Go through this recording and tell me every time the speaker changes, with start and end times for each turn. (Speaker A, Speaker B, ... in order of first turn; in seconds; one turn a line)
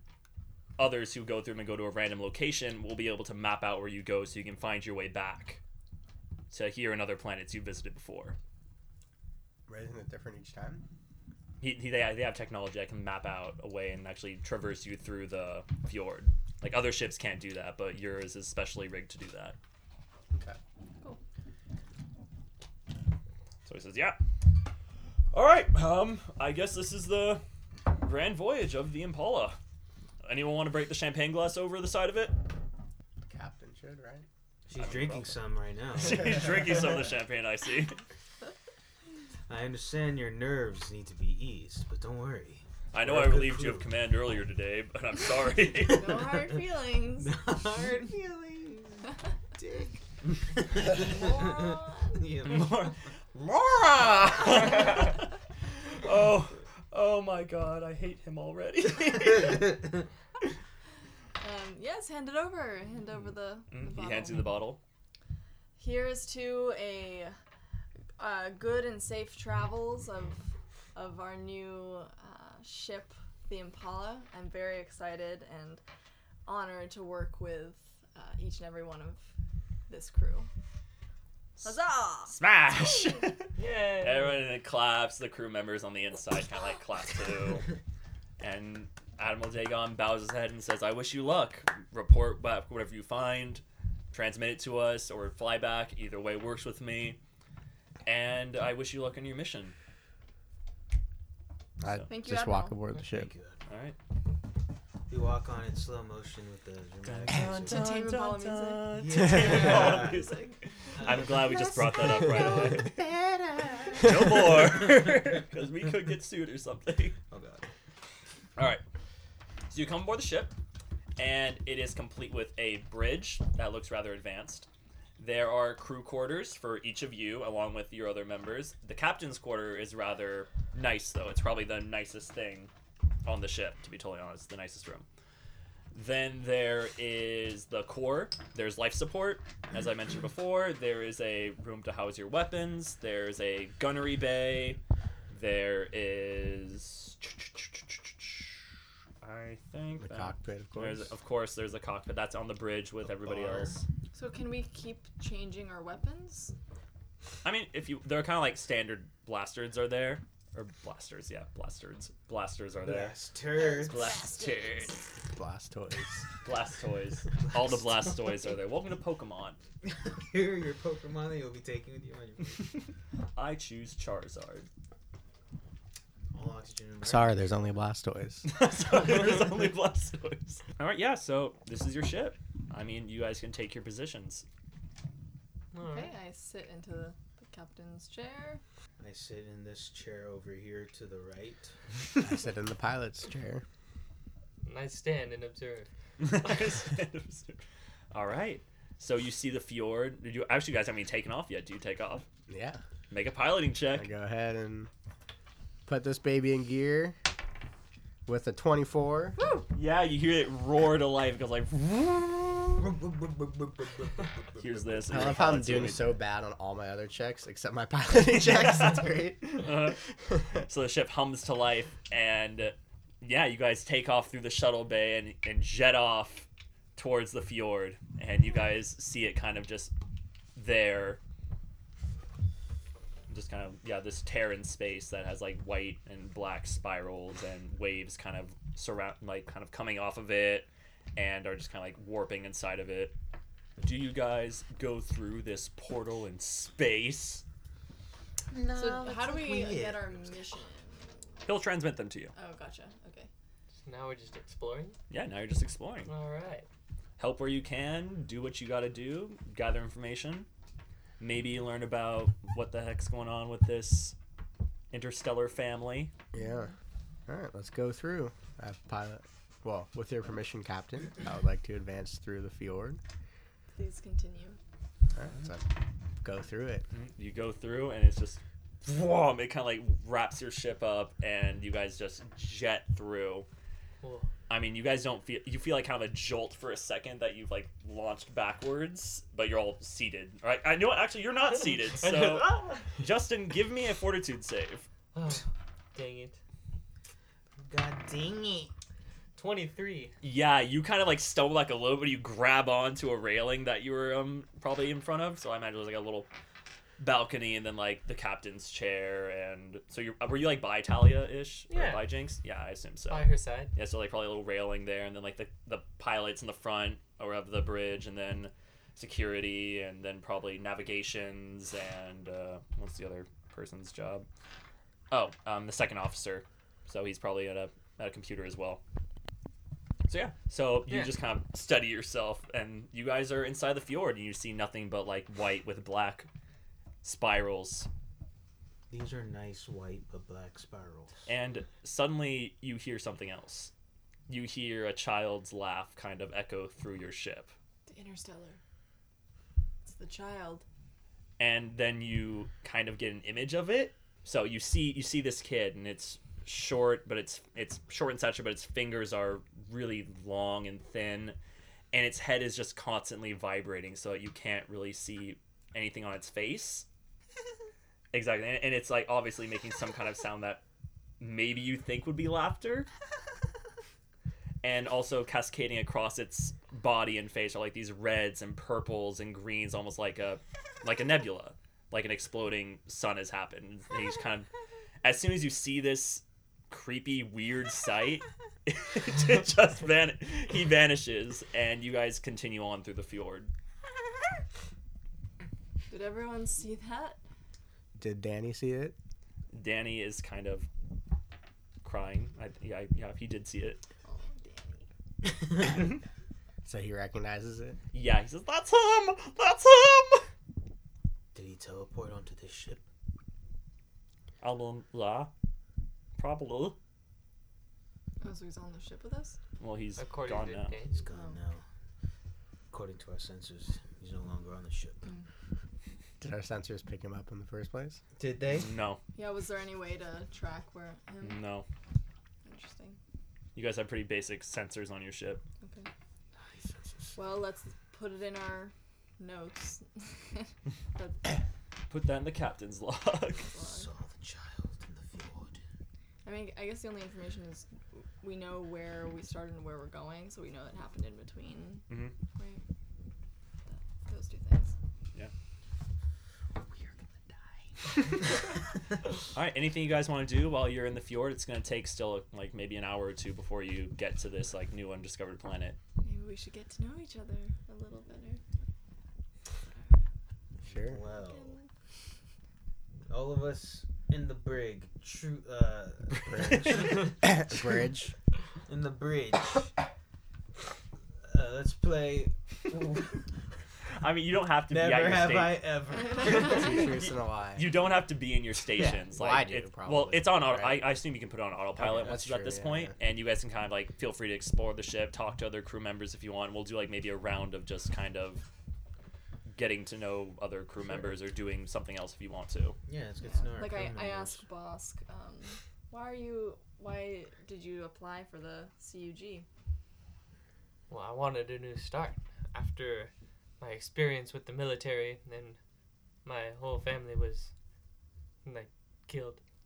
Speaker A: 0.8-5.6
Speaker A: 6.5-8.4
Speaker B: 9.7-10.8
Speaker A: 11.6-19.6
Speaker B: 20.3-20.6
Speaker A: 23.7-24.2
Speaker A: 25.3-29.6
Speaker A: 30.2-32.4
Speaker B: 33.2-34.3
Speaker C: 34.7-36.5
Speaker A: 34.7-35.4
Speaker A: 35.9-38.0
Speaker C: 39.5-43.9
Speaker A: 42.9-46.2
Speaker D: 45.8-47.4
Speaker C: 46.0-46.5
Speaker C: 47.2-53.0
Speaker D: 51.0-52.2
Speaker A: 52.5-59.9
Speaker D: 61.4-64.5
Speaker A: 63.7-64.8
Speaker D: 65.8-67.3
Speaker D: 68.2-75.8
Speaker D: 76.5-79.3
Speaker D: 79.9-80.5
Speaker D: 81.6-82.4
Speaker A: 82.3-87.7
Speaker E: 83.6-84.5
Speaker A: 88.4-97.2
Speaker A: 98.1-99.8
Speaker B: 101.8-103.3
Speaker D: 102.1-102.8
Speaker C: 103.0-103.6
Speaker A: 103.7-104.0
Speaker C: 105.1-107.9
Speaker A: 107.0-113.0
Speaker D: 107.7-111.0
Speaker C: 108.9-110.3
Speaker C: 111.0-115.4
Speaker A: 113.9-117.2
Speaker C: 117.3-117.7
Speaker A: 118.6-118.8
Speaker A: 119.7-120.5
Speaker A: 121.2-132.7
Speaker A: 133.2-135.1
Speaker A: 135.9-148.7
Speaker A: 149.2-153.8
Speaker B: 150.0-151.1
Speaker C: 153.1-153.8
Speaker D: 154.1-156.5
Speaker A: 157.4-163.2
Speaker C: 162.8-164.2
Speaker D: 163.6-165.0
Speaker A: 163.8-165.0
Speaker B: 165.3-166.3
Speaker A: 166.4-169.6
Speaker C: 167.4-168.3
Speaker C: 169.8-172.8
Speaker A: 173.3-174.7
Speaker C: 176.3-177.4
Speaker B: 177.0-178.5
Speaker A: 178.4-184.5
Speaker E: 185.7-186.1
Speaker D: 185.8-188.6
Speaker C: 189.0-191.7
Speaker B: 192.2-193.6
Speaker E: 194.6-195.9
Speaker A: 196.2-202.3
Speaker B: 202.5-202.8
Speaker A: 203.1-204.1
Speaker B: 203.9-204.9
Speaker B: 205.9-207.2
Speaker B: 208.3-209.4
Speaker A: 209.6-212.9
Speaker C: 212.8-215.6
Speaker A: 214.6-216.1
Speaker B: 215.1-220.6
Speaker A: 218.2-229.9
Speaker A: 230.6-231.2
Speaker A: 233.3-243.1
Speaker A: 243.8-247.4
Speaker C: 248.5-250.5
Speaker D: 248.7-251.2
Speaker A: 251.4-252.3
Speaker D: 252.3-253.3
Speaker E: 253.8-255.0
Speaker A: 255.1-256.1
Speaker E: 256.1-256.7
Speaker A: 257.2-260.5
Speaker A: 261.2-264.2
Speaker A: 264.9-266.1
Speaker B: 266.3-266.7
Speaker D: 266.4-266.7
Speaker B: 267.3-273.0
Speaker D: 273.7-274.6
Speaker B: 275.1-276.9
Speaker A: 276.9-283.5
Speaker E: 284.0-284.3
Speaker A: 284.5-294.9
Speaker E: 292.0-292.8
Speaker E: 295.1-296.4
Speaker C: 297.6-298.7
Speaker E: 299.4-300.1
Speaker A: 300.2-306.3
Speaker A: 307.0-324.3
Speaker E: 311.7-312.1
Speaker E: 313.1-313.7
Speaker A: 325.1-328.8
Speaker A: 330.1-336.3
Speaker E: 330.9-331.1
Speaker A: 337.0-337.9
Speaker C: 338.9-341.1
Speaker A: 341.3-343.7
Speaker A: 344.3-347.5
Speaker D: 347.9-348.6
Speaker D: 349.8-350.6
Speaker A: 351.4-361.4
Speaker A: 361.9-366.9
Speaker A: 368.1-370.6
Speaker A: 371.2-372.9
Speaker A: 374.6-384.5
Speaker A: 385.0-393.5
Speaker D: 395.9-397.2
Speaker B: 397.9-398.9
Speaker A: 399.5-400.7
Speaker A: 401.8-403.8
Speaker D: 404.1-404.9
Speaker B: 406.6-407.8
Speaker A: 407.9-410.3
Speaker C: 411.3-412.8
Speaker A: 414.4-415.3
Speaker A: 416.2-416.8
Speaker D: 418.2-419.4
Speaker A: 419.6-420.8
Speaker E: 420.0-421.0
Speaker C: 420.9-421.6
Speaker D: 421.1-421.4
Speaker C: 422.7-425.1
Speaker B: 426.2-428.0
Speaker C: 428.2-428.7
Speaker A: 428.5-429.0
Speaker D: 429.1-431.4
Speaker A: 431.2-431.7
Speaker D: 432.4-433.0
Speaker A: 433.6-435.4
Speaker D: 435.6-435.9
Speaker C: 436.4-437.2
Speaker D: 437.1-441.3
Speaker A: 441.9-443.5
Speaker D: 443.4-443.9
Speaker C: 443.6-445.6
Speaker D: 446.2-452.6
Speaker A: 451.9-452.1
Speaker D: 453.7-454.7
Speaker A: 459.3-465.8
Speaker D: 466.0-468.4
Speaker B: 470.6-471.0
Speaker C: 470.6-471.6
Speaker D: 471.1-471.7
Speaker C: 473.1-477.2
Speaker B: 476.3-478.1
Speaker C: 478.7-479.7
Speaker C: 481.2-483.3
Speaker A: 484.0-485.7
Speaker C: 484.7-487.1
Speaker D: 486.1-486.5
Speaker B: 486.4-487.8
Speaker A: 487.6-498.4
Speaker B: 488.8-490.9
Speaker B: 491.8-492.9
Speaker A: 499.5-502.8
Speaker C: 502.9-504.4
Speaker D: 503.2-509.5
Speaker E: 510.9-515.6
Speaker E: 516.2-517.5
Speaker E: 518.4-519.4